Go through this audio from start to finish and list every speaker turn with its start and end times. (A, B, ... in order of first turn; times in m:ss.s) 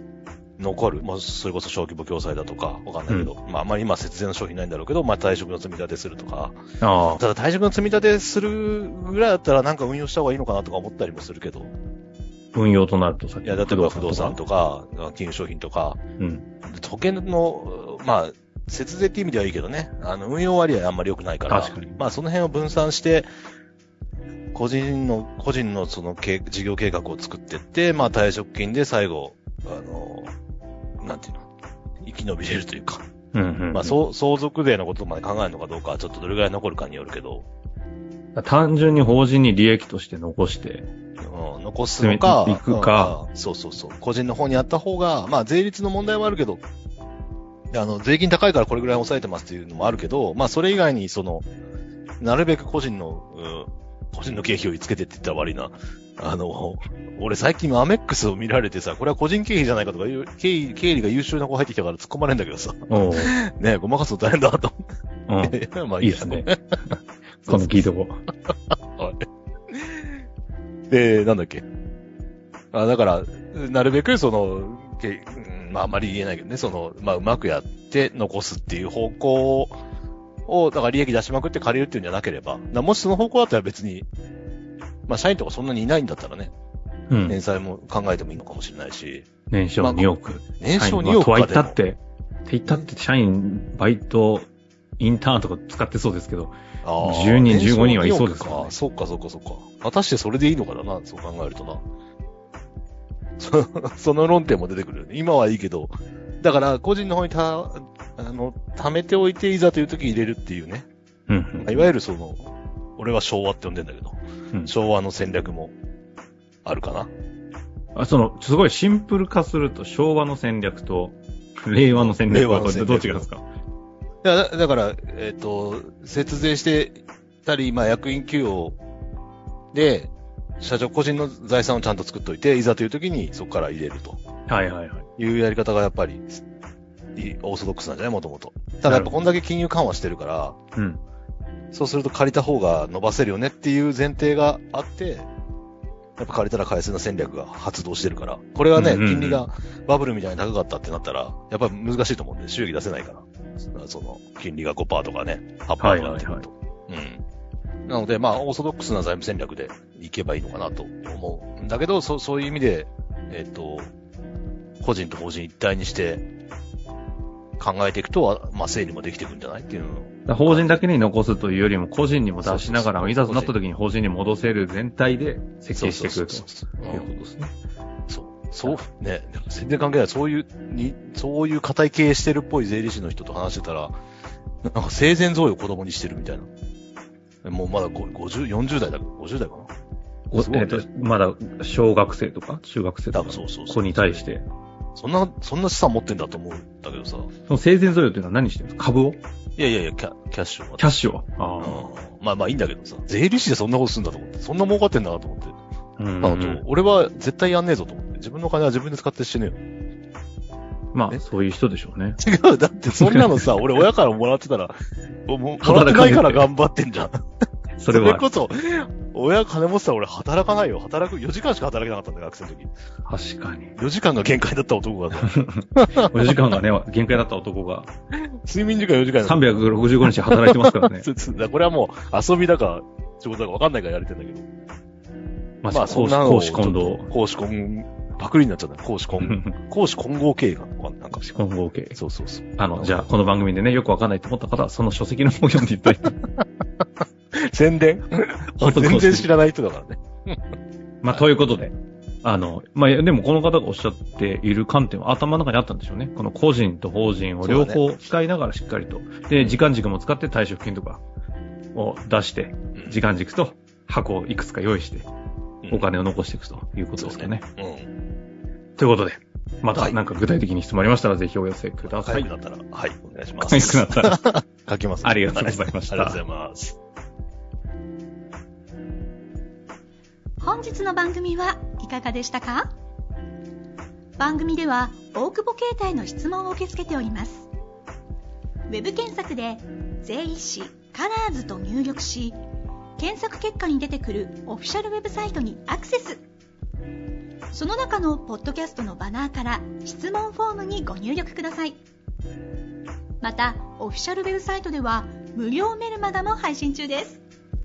0:00.6-0:06.6 A
0:06.8-0:07.2 B
0:07.2-0:11.7 A
0:12.5-0:14.4 B
0:13.4-0:16.0 A
0:16.2-0:16.5 B
0:16.7-0:23.3 A
0:21.5-0:22.0 B
0:24.5-0:30.4 A
0:31.0-0:31.5 A
0:32.0-0:33.0 A
0:33.3-0:34.0 B
0:33.7-0:37.5 A
0:38.4-0:40.9 B
0:41.2-0:46.6 A
0:42.0-0:43.2 B
0:47.7-0:51.5 A
0:52.2-1:04.8 A
1:02.9-1:03.3 B
1:05.3-1:08.2 B
1:05.4-1:06.6 A
1:07.5-1:07.9 A
1:09.0-1:10.2 A
1:10.9-1:11.6 A
1:12.7-1:19.8 A
1:20.5-1:24.1 A
1:25.1-1:26.5 A
1:27.1-1:27.4 B
1:27.3-1:29.3 A
1:29.5-1:38.7 B
1:29.8-1:31.8 A
1:36.8-1:41.8 A
1:43.4-1:50.9 A
1:51.3-1:51.9 B
1:51.6-1:55.8 A
1:56.6-1:57.1 A
1:58.0-2:03.4 B
2:01.9-2:03.3 A
2:04.2-2:08.8 A
2:09.7-2:14.2 A
2:14.5-2:15.1 B
2:15.2-2:16.4 A
2:17.2-2:20.6 A
2:18.8-2:19.2 B
2:20.8-2:21.0 B
2:21.7-2:25.3 A
2:26.2-2:37.2 A
2:28.7-2:29.5 B
2:35.8-2:36.5 B
2:37.9-2:43.9 A
2:44.8-2:46.2 A
2:47.6-2:50.8 A
2:50.3-2:57.5 B
2:52.4-2:53.5 A
2:55.8-2:57.1 A
2:58.1-3:04.0 A
3:04.6-3:06.5 A
3:07.4-3:09.7 A
3:10.3-3:14.5 B
3:10.3-3:10.8 A
3:13.1-3:14.2 A
3:15.0-3:17.3 A
3:17.5-3:19.2 B
3:19.6-3:20.9 A
3:20.8-3:21.9 B
3:21.6-3:25.6 A
3:26.0-3:26.6 B
3:26.2-3:29.6 A
3:30.9-3:32.2 B
3:32.2-3:34.7 A
3:33.0-3:33.5 B
3:35.3-3:37.2 A
3:35.6-3:36.5 B
3:37.8-3:38.2 B
3:37.9-3:42.7 A
3:43.1-3:43.8 B
3:43.8-3:46.3 A
3:45.3-3:47.9 B
3:48.4-3:54.4 A
3:49.2-3:51.1 B
3:55.6-3:57.1 B
3:55.7-4:01.3 A
3:59.2-3:59.6 B
4:01.1-4:02.0 B
4:02.0-4:03.1 A
4:02.6-4:06.2 B
4:07.5-4:10.4 A
4:08.6-4:09.3 B
4:11.0-4:21.0 B
4:17.4-4:17.8 A
4:19.4-4:19.6 A
4:21.7-4:25.1 B
4:25.7-4:27.5 B
4:27.0-4:27.9 A
4:28.8-4:32.3 B
4:29.8-4:30.0 A
4:31.9-4:36.8 A
4:33.4-4:34.3 B
4:35.0-4:36.2 B
4:40.4-4:42.7 C
4:44.2-4:47.5 C
4:48.7-4:52.4 C
4:53.0-4:56.2 C
4:57.5-5:01.8 C
5:03.2-5:07.2 C